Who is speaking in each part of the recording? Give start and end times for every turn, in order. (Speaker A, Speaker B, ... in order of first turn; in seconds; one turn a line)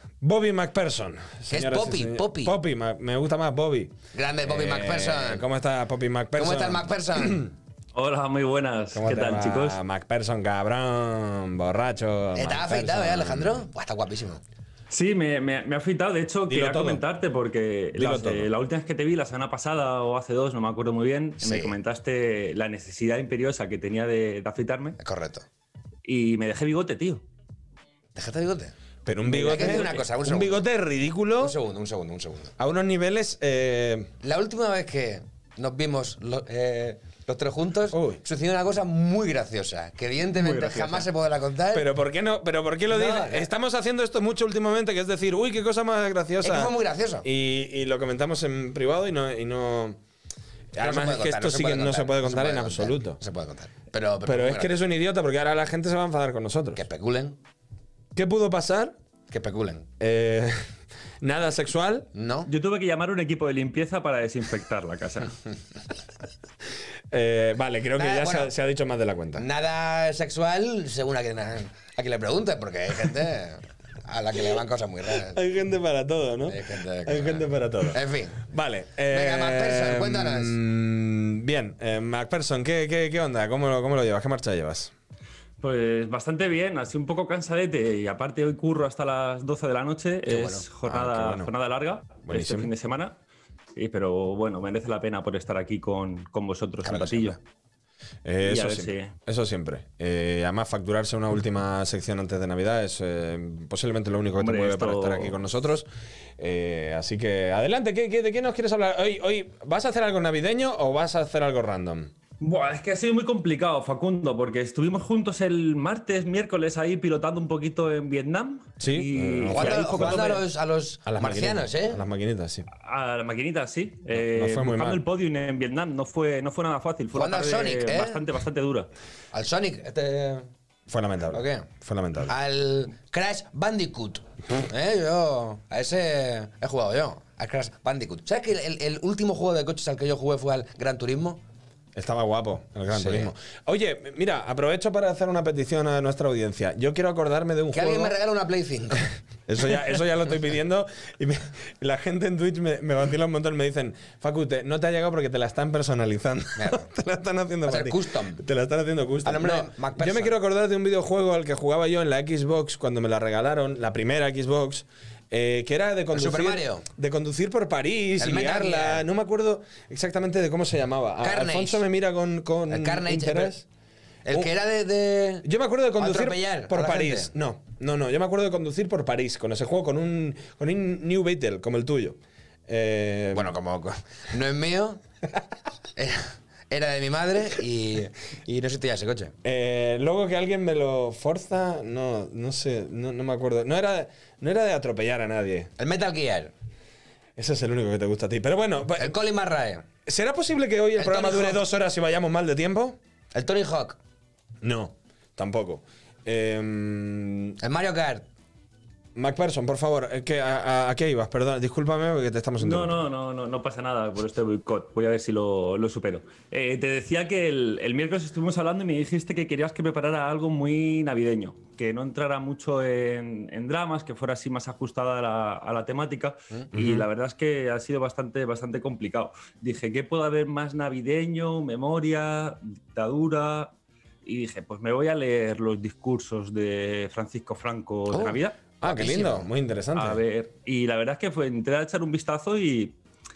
Speaker A: 0.2-7.5
Speaker B: 1.5-2.6
Speaker B: 4.1-5.5
Speaker B: 6.3-7.5
Speaker C: 7.9-9.8
Speaker A: 8.9-13.6
Speaker B: 12.3-14.4
Speaker C: 14.9-25.0
Speaker A: 16.5-17.0
Speaker A: 17.9-18.5
Speaker B: 21.4-21.8
Speaker B: 25.0-25.4
Speaker C: 26.0-27.2
Speaker B: 28.1-30.6
Speaker A: 29.0-31.6
Speaker C: 29.4-29.9
Speaker B: 31.4-32.5
Speaker A: 32.6-34.1
Speaker B: 34.2-41.9
Speaker A: 37.9-38.2
Speaker A: 40.3-41.1
Speaker A: 41.7-50.0
Speaker B: 42.9-43.5
Speaker B: 46.4-47.2
Speaker A: 50.7-53.2
Speaker B: 50.8-54.8
Speaker A: 54.2-56.8
Speaker B: 56.7-57.4
Speaker A: 58.1-59.0
Speaker B: 59.3-59.9
Speaker A: 60.0-60.6
Speaker A: 61.2-62.1
Speaker B: 62.1-62.5
Speaker C: 62.5-65.3
Speaker A: 67.1-69.5
Speaker B: 67.9-68.5
Speaker B: 69.3-75.4
Speaker A: 75.3-84.9
Speaker B: 76.5-78.4
Speaker B: 79.1-80.6
Speaker C: 85.6-93.2
Speaker B: 90.3-90.7
Speaker A: 90.8-91.5
Speaker A: 92.2-92.7
Speaker C: 93.8-97.4
Speaker B: 96.8-97.4
Speaker A: 98.2-112.1
Speaker C: 98.4-99.1
Speaker C: 104.3-105.4
Speaker C: 112.4-120.4
Speaker A: 118.8-120.5
Speaker B: 119.5-122.0
Speaker A: 121.0-122.7
Speaker C: 122.7-128.9
Speaker A: 124.1-125.0
Speaker B: 127.1-128.2
Speaker B: 129.3-130.5
Speaker A: 130.9-132.3
Speaker B: 131.3-131.7
Speaker B: 132.2-141.4
Speaker A: 141.9-148.1
Speaker B: 142.9-143.3
Speaker B: 147.7-149.1
Speaker A: 149.5-173.6
Speaker B: 156.6-156.9
Speaker B: 157.7-158.4
Speaker B: 159.2-160.3
Speaker B: 166.1-166.8
Speaker B: 168.2-169.0
Speaker B: 171.2-171.8
Speaker B: 172.7-173.5
Speaker B: 174.2-175.5
Speaker A: 175.4-183.6
Speaker B: 176.0-177.3
Speaker B: 183.3-185.0
Speaker B: 185.9-189.3
Speaker A: 189.4-195.7
Speaker B: 195.8-196.5
Speaker A: 197.4-199.2
Speaker B: 199.0-199.8
Speaker A: 200.1-203.0
Speaker B: 200.9-201.6
Speaker B: 203.3-204.0
Speaker A: 204.6-207.6
Speaker B: 207.6-208.2
Speaker A: 209.1-213.0
Speaker C: 212.6-238.6
Speaker A: 226.7-227.1
Speaker B: 238.1-239.5
Speaker A: 238.8-240.2
Speaker C: 239.9-243.0